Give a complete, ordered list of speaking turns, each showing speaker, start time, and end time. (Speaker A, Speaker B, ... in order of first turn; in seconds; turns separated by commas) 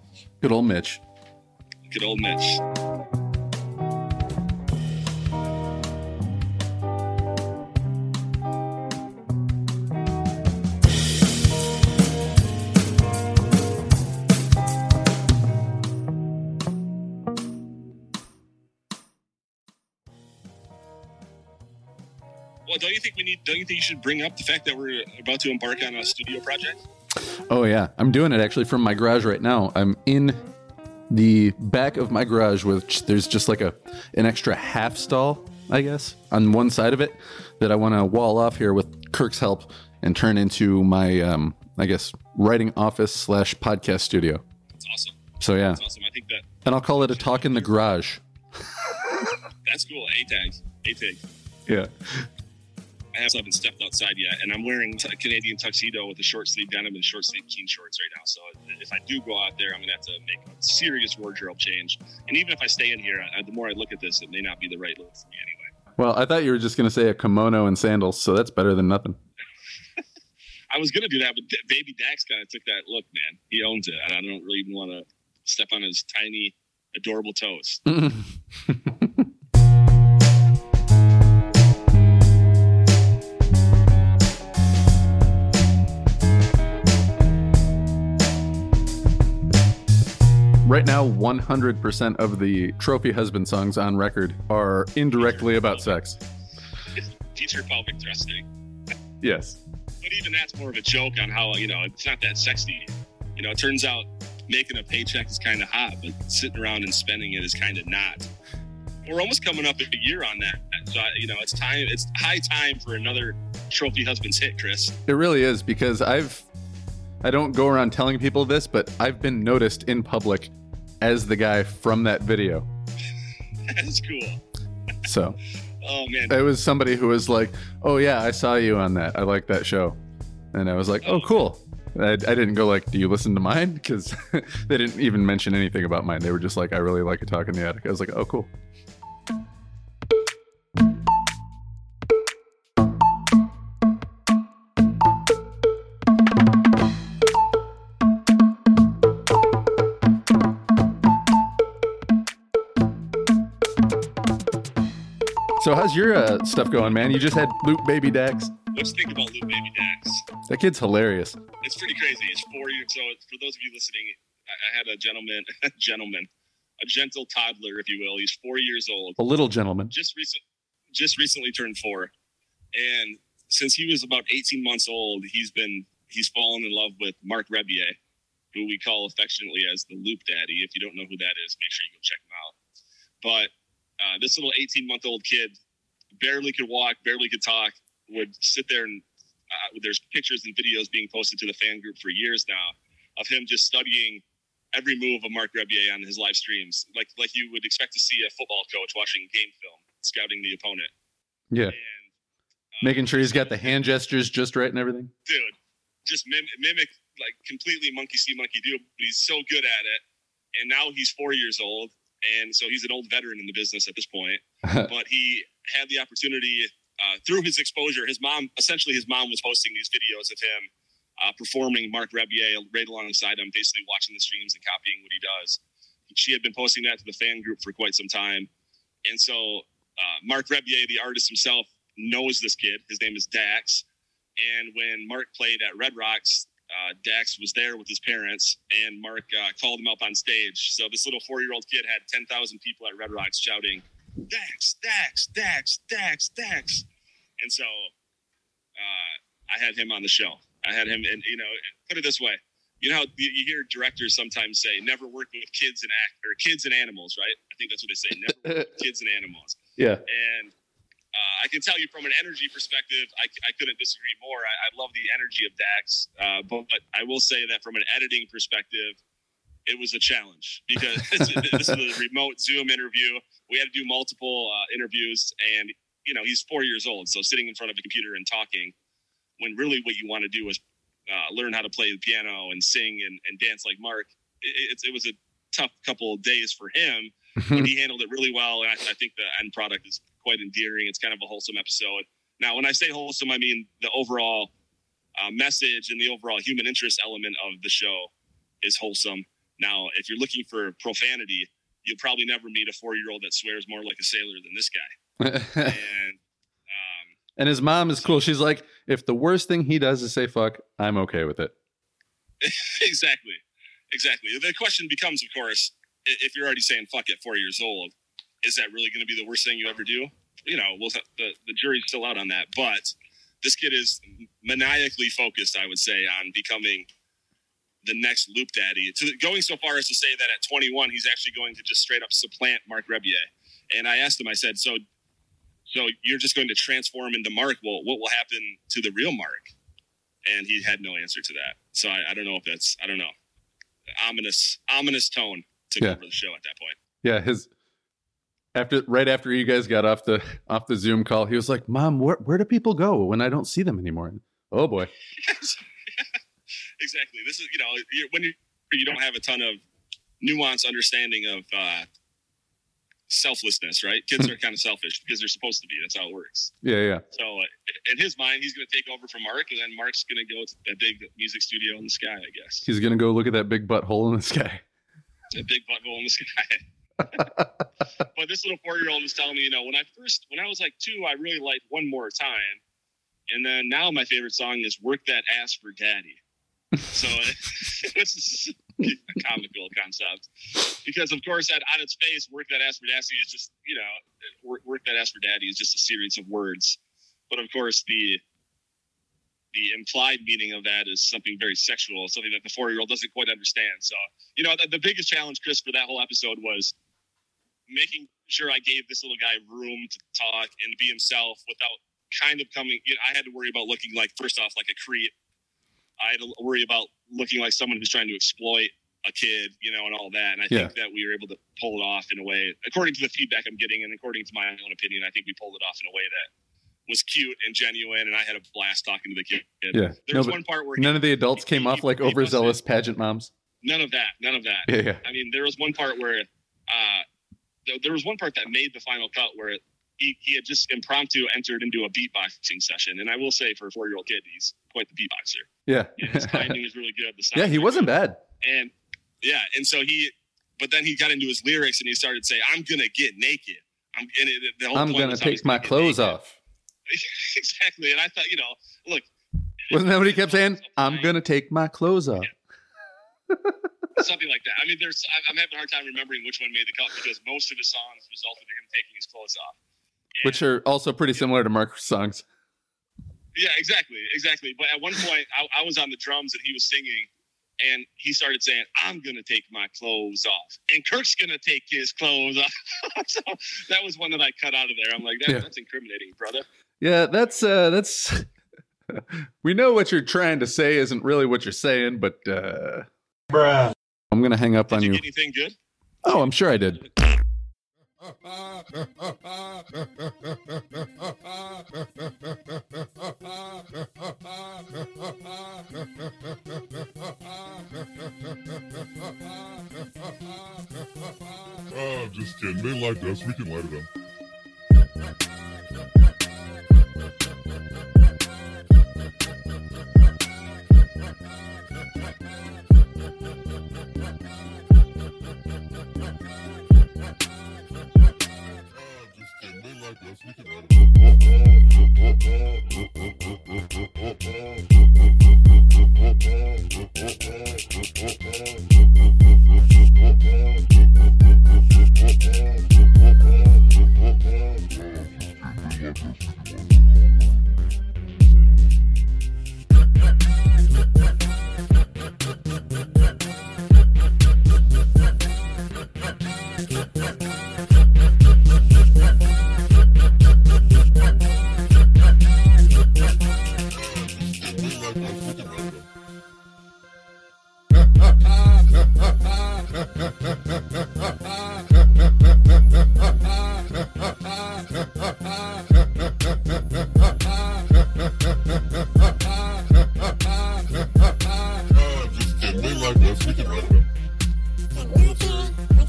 Speaker A: 0.4-1.0, Speaker B: 1.9-2.6, Speaker B: 22.7-26.8, Speaker A: 27.5-30.4, Speaker A: 31.1-44.4, Speaker B: 44.7-45.2, Speaker A: 45.4-45.8, Speaker B: 45.7-47.7, Speaker A: 46.6-48.2, Speaker B: 49.6-51.2, Speaker A: 51.7-52.3, Speaker B: 53.1-65.7, Speaker A: 66.0-69.2, Speaker B: 70.7-77.8, Speaker A: 77.8-79.2, Speaker A: 90.7-96.2, Speaker B: 95.2-95.9, Speaker B: 97.0-98.5, Speaker A: 99.2-99.6, Speaker B: 100.0-108.3, Speaker B: 109.1-115.0, Speaker A: 115.1-116.5, Speaker A: 117.2-122.7, Speaker B: 123.7-124.4, Speaker A: 125.1-125.4, Speaker B: 125.8-126.4, Speaker A: 126.3-130.0, Speaker A: 130.5-138.5, Speaker B: 131.0-131.4, Speaker A: 155.6-158.5, Speaker B: 158.7-160.3, Speaker A: 160.5-161.4, Speaker B: 161.6-166.3, Speaker B: 166.8-169.2, Speaker A: 169.2-169.9, Speaker B: 169.9-170.4, Speaker B: 170.9-172.1, Speaker B: 172.8-178.0, Speaker B: 178.5-182.6, Speaker B: 183.2-185.6, Speaker B: 186.2-200.9, Speaker B: 201.7-202.1, Speaker B: 202.8-203.8, Speaker A: 202.8-205.1, Speaker B: 205.3-210.0, Speaker B: 210.6-220.7, Speaker A: 214.7-214.9, Speaker B: 221.2-228.5, Speaker B: 229.1-233.8, Speaker B: 234.4-246.9, Speaker B: 247.4-247.9, Speaker B: 248.8-260.5, Speaker A: 259.8-260.0, Speaker B: 261.1-269.0, Speaker B: 269.7-278.7, Speaker A: 271.2-271.7, Speaker B: 279.4-294.5, Speaker A: 287.4-287.7, Speaker B: 295.2-298.1, Speaker B: 298.6-304.9, Speaker A: 305.2-305.8, Speaker B: 305.6-307.2, Speaker A: 307.4-311.5, Speaker B: 312.4-326.9, Speaker B: 327.8-334.8, Speaker B: 335.7-339.5, Speaker B: 340.3-343.1, Speaker B: 344.0-346.8, Speaker A: 347.0-347.5, Speaker A: 348.6-354.9, Speaker B: 355.2-356.1, Speaker B: 356.8-359.6, Speaker B: 360.2-361.9, Speaker B: 363.1-366.5, Speaker A: 366.6-367.0, Speaker B: 367.1-372.7, Speaker A: 372.6-374.6, Speaker B: 375.3-377.3, Speaker B: 378.1-382.6, Speaker B: 383.3-386.2, Speaker B: 386.8-390.3, Speaker B: 390.8-396.8, Speaker B: 397.3-398.2, Speaker B: 399.5-406.7, Speaker B: 407.7-415.1, Speaker B: 416.0-426.3, Speaker B: 426.9-432.6, Speaker A: 429.7-433.3, Speaker B: 433.6-437.1, Speaker A: 434.7-435.0, Speaker B: 437.7-456.2, Speaker A: 445.7-446.6, Speaker A: 447.4-448.2, Speaker A: 454.7-456.4, Speaker B: 456.9-459.1, Speaker B: 459.7-461.1, Speaker A: 459.7-462.3, Speaker B: 464.0-469.6, Speaker B: 470.2-470.4, Speaker A: 470.2-472.2, Speaker B: 473.4-477.1, Speaker B: 477.6-486.4, Speaker A: 486.8-488.3, Speaker A: 488.9-492.9, Speaker A: 494.1-495.0, Speaker B: 494.7-495.6, Speaker A: 496.1-496.9, Speaker C: 511.7-513.9, Speaker C: 529.3-530.5, Speaker C: 564.6-565.7, Speaker C: 581.9-583.8, Speaker C: 585.1-585.5